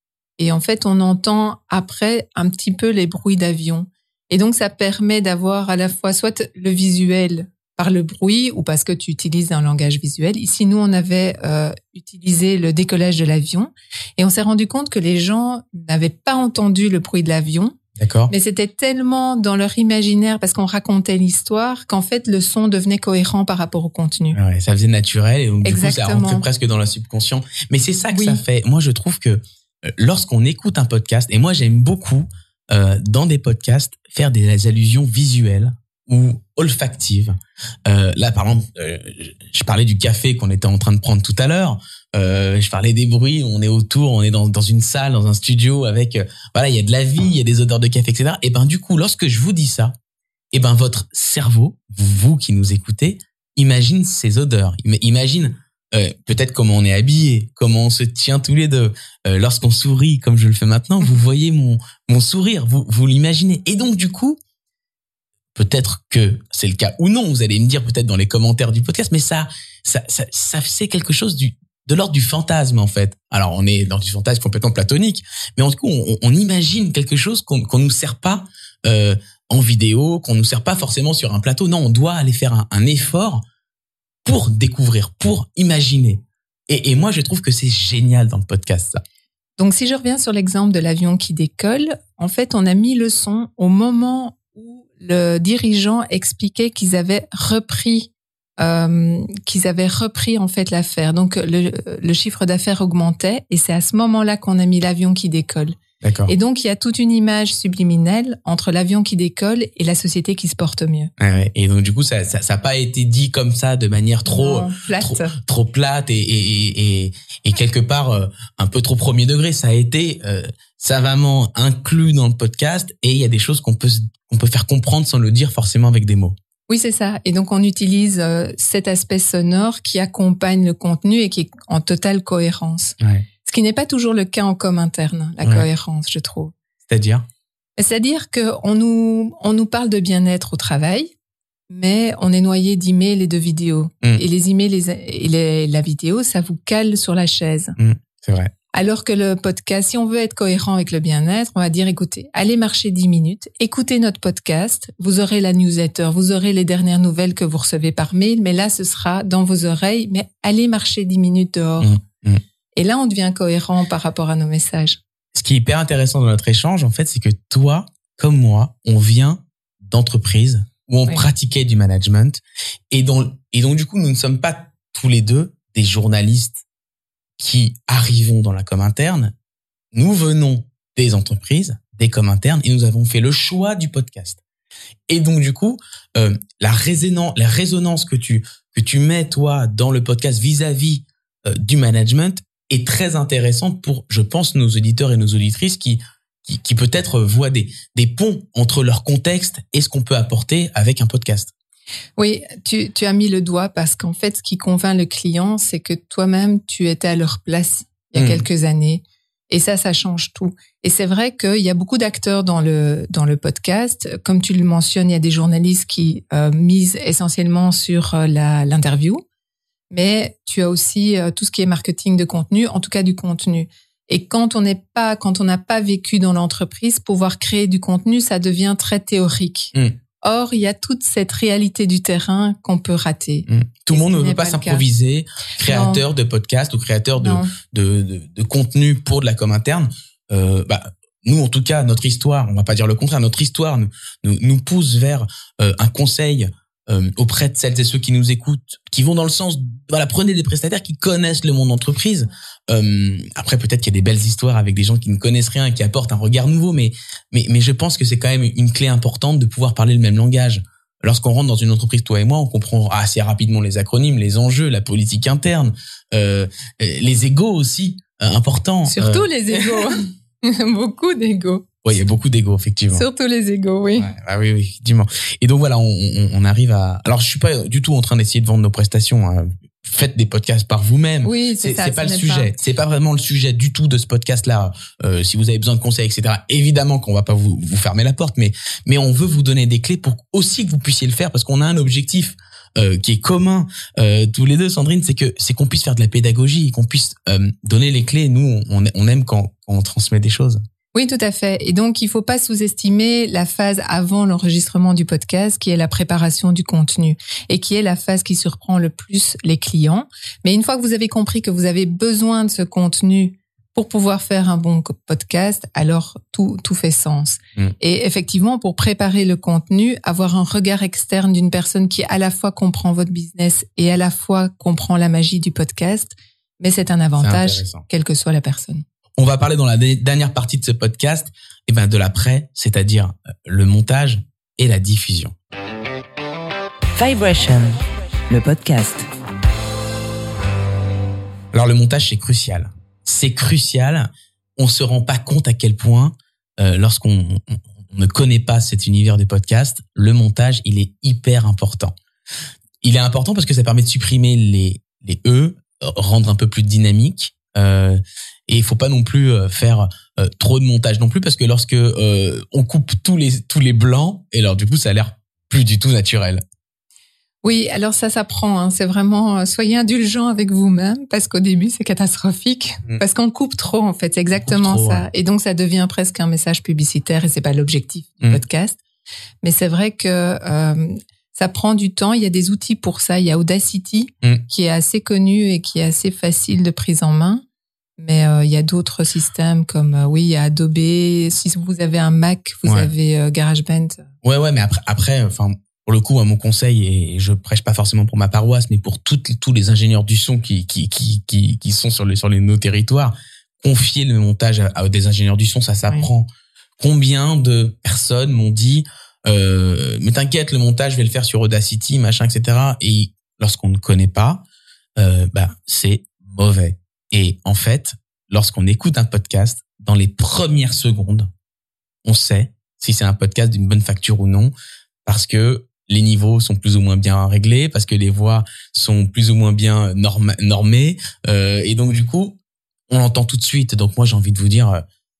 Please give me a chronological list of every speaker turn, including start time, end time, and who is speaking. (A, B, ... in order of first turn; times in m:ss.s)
0:00.4-0:17.8 A
0:18.0-0:18.3 B
0:18.3-0:24.4 A
0:24.3-0:49.9 B
0:25.6-0:26.5 A
0:28.1-0:28.4 A
0:50.5-1:04.4 B
1:05.6-1:23.4 B
1:24.2-1:29.0 B
1:29.6-1:51.1 A
1:46.0-1:46.3 B
1:51.2-2:06.4 B
1:54.3-1:55.4 A
2:06.7-2:16.6 A
2:13.0-2:13.3 B
2:16.9-2:17.3 B
2:17.8-2:21.1 A
2:21.7-2:27.8 A
2:27.8-2:28.5 B
2:28.7-2:41.9 A
2:41.8-2:42.4 B
2:42.8-2:45.0 A
2:45.3-2:56.6 B
2:57.4-2:59.3 B
2:59.9-3:04.4 B
3:05.1-3:21.5 B
3:22.2-3:39.2 A
3:28.2-3:28.5 B
3:39.9-3:54.8 A
3:53.5-4:29.9 B
3:55.6-3:56.0 A
3:57.2-3:57.5 A
4:28.9-4:31.7 A
4:31.8-4:33.1 B
4:32.9-4:34.1 A
4:34.0-5:00.6 B
4:41.2-4:42.5 A
5:00.9-5:28.8 A
5:27.2-5:27.8 B
5:29.2-5:35.3 B
5:37.0-5:39.1 C
5:41.5-5:52.0 B
5:52.8-6:06.4 B
6:07.4-6:18.8 A
6:14.4-6:15.1 B
6:19.4-6:27.4 A
6:28.0-6:34.0 A
6:32.6-6:32.9 B
6:34.2-6:54.4 B
6:55.0-7:01.3 B
7:02.0-7:04.5 B
7:05.1-7:12.4 B
7:12.9-7:14.8 B